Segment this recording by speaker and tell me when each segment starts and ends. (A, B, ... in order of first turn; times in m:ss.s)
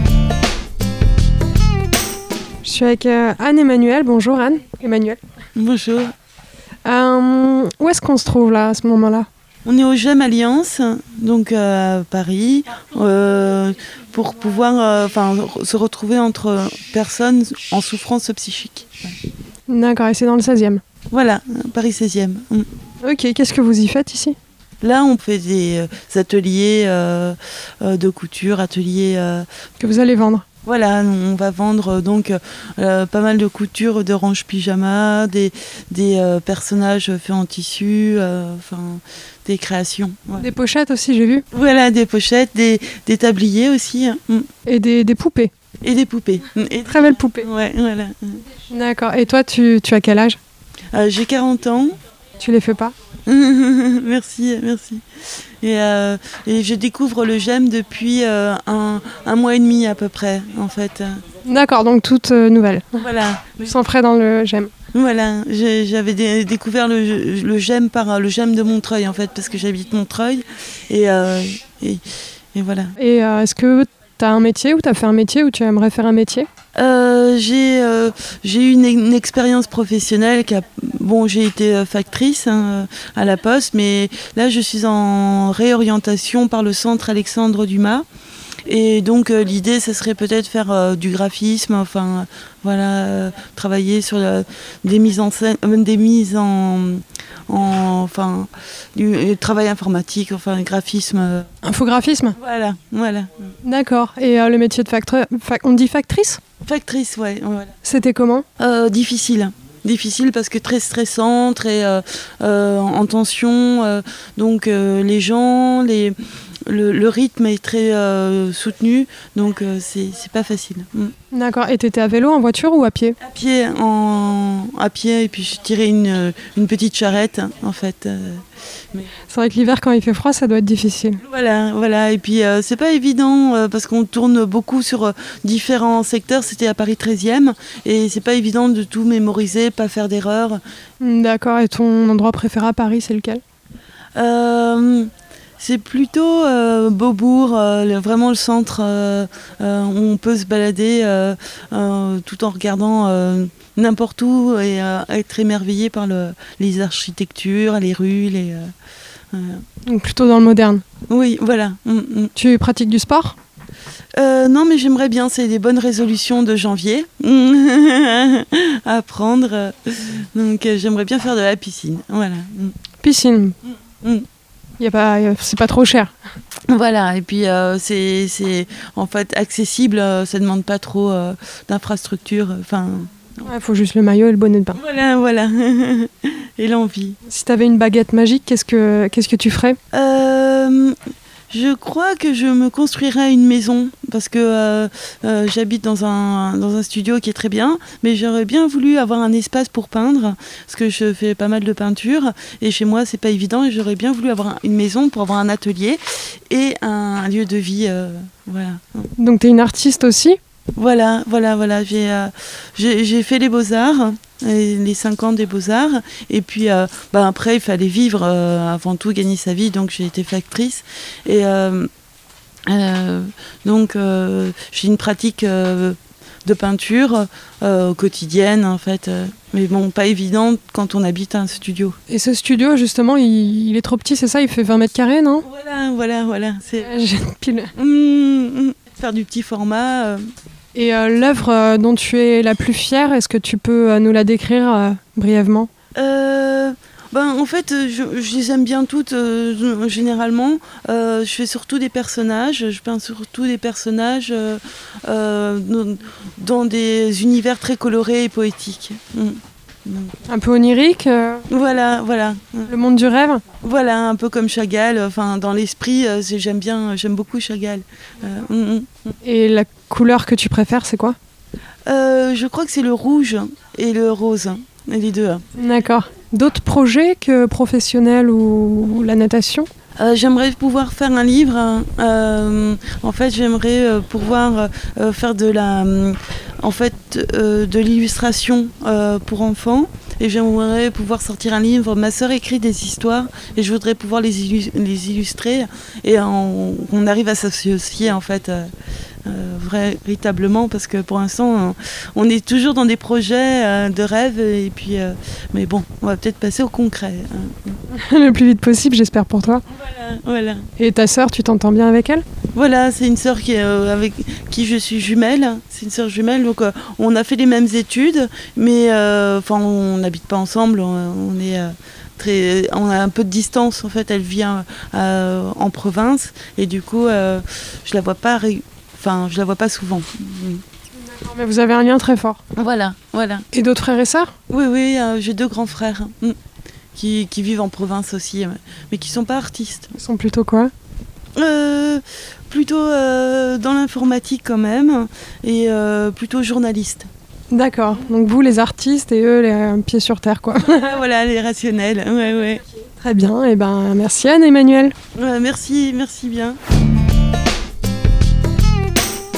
0:02.6-0:05.2 A
0:05.6-0:06.1 B
0:06.8-0:09.3 A
0:09.6-0:19.1 B
0:19.7-0:20.8 A
0:21.1-0:22.7 B
0:23.0-0:24.4 A
0:24.8-0:29.5 B
0:29.8-0:30.4 A
0:30.6-0:40.5 B
0:40.4-0:41.4 A
0:41.5-0:44.5 B
0:44.7-0:45.5 A
0:45.8-0:48.4 B
0:46.9-0:47.5 A
0:48.7-0:50.4 A
0:50.9-0:52.0 B
0:52.4-0:52.9 A
0:53.3-0:55.0 B
0:55.6-1:01.2 B
1:01.4-1:03.0 A
1:02.9-1:03.7 B
1:03.6-1:04.7 A
1:04.9-1:12.0 B
1:12.5-1:13.0 B
1:13.0-1:16.5 A
1:16.8-1:28.1 B
1:28.7-1:41.5 B
1:41.6-1:42.4 A
1:42.4-1:43.3 B
1:43.6-1:46.4 A
1:46.6-1:47.8 B
1:47.8-1:48.4 A
1:48.6-2:01.1 B
2:01.3-2:03.2 A
2:03.2-2:09.1 B
2:09.3-2:11.2 A
2:11.2-2:20.6 B
2:21.0-2:23.4 A
2:24.2-2:38.7 B
2:39.3-2:39.6 B
2:39.8-2:40.8 A
2:41.1-2:42.3 B
2:42.4-2:43.4 A
2:44.2-2:52.8 B
2:53.0-2:53.6 A
2:54.0-2:54.3 B
2:54.8-2:56.1 A
2:56.7-3:03.1 B
3:03.4-3:04.8 A
3:04.7-3:07.2 B
3:07.3-3:09.8 A
3:09.9-3:11.0 B
3:11.5-3:29.1 B
3:29.2-3:30.4 A
3:30.8-3:41.9 B
3:42.7-3:52.0 B
3:52.1-3:55.4 A
3:55.4-3:57.0 B
3:56.8-3:57.7 A
3:57.8-4:00.2 B
4:00.8-4:05.7 A
4:06.0-4:20.2 B
4:20.3-4:21.4 A
4:21.5-4:22.7 B
4:22.7-4:23.4 A
4:23.6-4:29.2 B
4:29.2-4:31.2 A
4:31.9-4:35.4 B
4:35.6-4:39.7 A
4:40.0-4:58.7 B
4:59.3-5:07.8 B
5:07.9-5:09.6 A
5:09.7-5:10.7 B
5:10.8-5:12.2 A
5:12.6-5:30.6 B
5:31.0-5:32.4 A
5:32.6-5:33.5 B
5:33.5-5:34.3 A
5:34.5-5:36.4 B
5:37.0-5:39.9 B
5:40.0-5:40.7 A
5:41.4-5:47.1 B
5:47.5-5:51.0 A
5:50.6-5:52.6 B
5:53.0-5:54.9 A
5:55.2-5:56.6 B